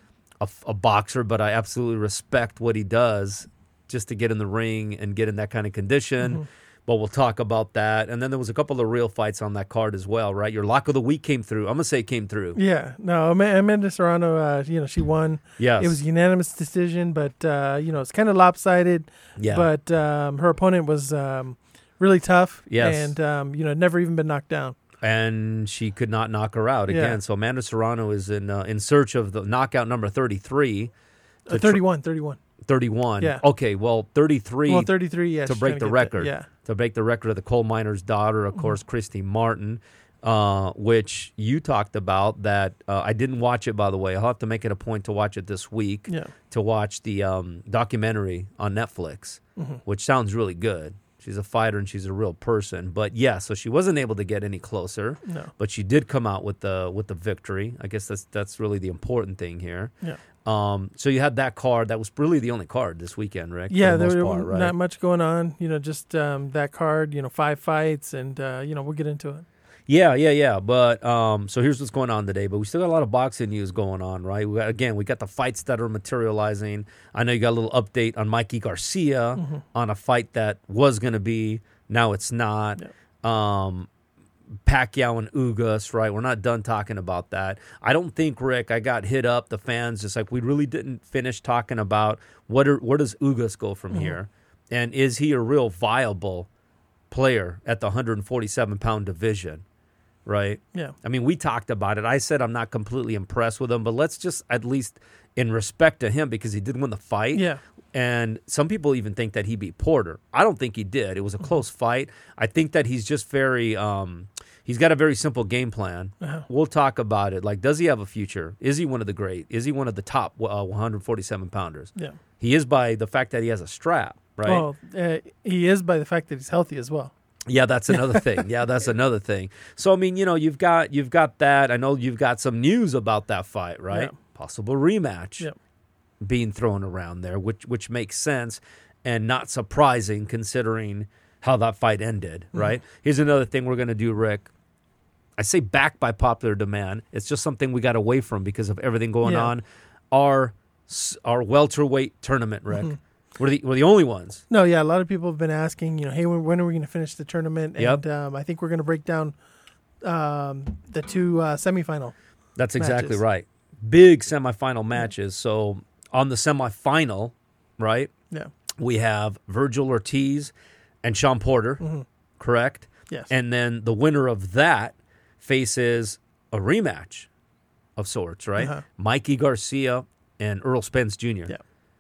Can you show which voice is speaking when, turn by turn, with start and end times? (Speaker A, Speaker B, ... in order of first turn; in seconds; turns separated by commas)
Speaker A: 0.4-12.6, Speaker B: 12.6-24.8, Speaker A: 15.6-16.0, Speaker A: 19.4-19.7, Speaker A: 22.7-23.1, Speaker A: 25.0-30.9, Speaker B: 26.9-27.2, Speaker B: 31.5-32.4, Speaker A: 31.5-31.8, Speaker A: 32.6-34.9, Speaker B: 34.7-36.5, Speaker A: 35.5-59.9, Speaker B: 46.1-46.3, Speaker B: 49.6-49.8, Speaker B: 55.2-55.5, Speaker A: 60.5-64.7, Speaker B: 63.7-69.5, Speaker A: 69.9-83.9, Speaker B: 79.4-79.6, Speaker A: 84.7-96.5, Speaker A: 97.1-99.6, Speaker A: 100.3-124.7, Speaker B: 107.3-107.6, Speaker B: 116.2-116.5, Speaker B: 124.5-127.1, Speaker A: 127.5-135.5, Speaker B: 127.9-128.4, Speaker A: 136.2-144.5, Speaker A: 145.4-154.4, Speaker B: 149.2-149.5, Speaker B: 154.5-159.3, Speaker B: 160.0-162.2, Speaker A: 162.6-168.1, Speaker B: 162.8-163.2, Speaker A: 168.8-171.8, Speaker A: 172.4-177.3, Speaker A: 178.0-181.5, Speaker B: 178.6-178.8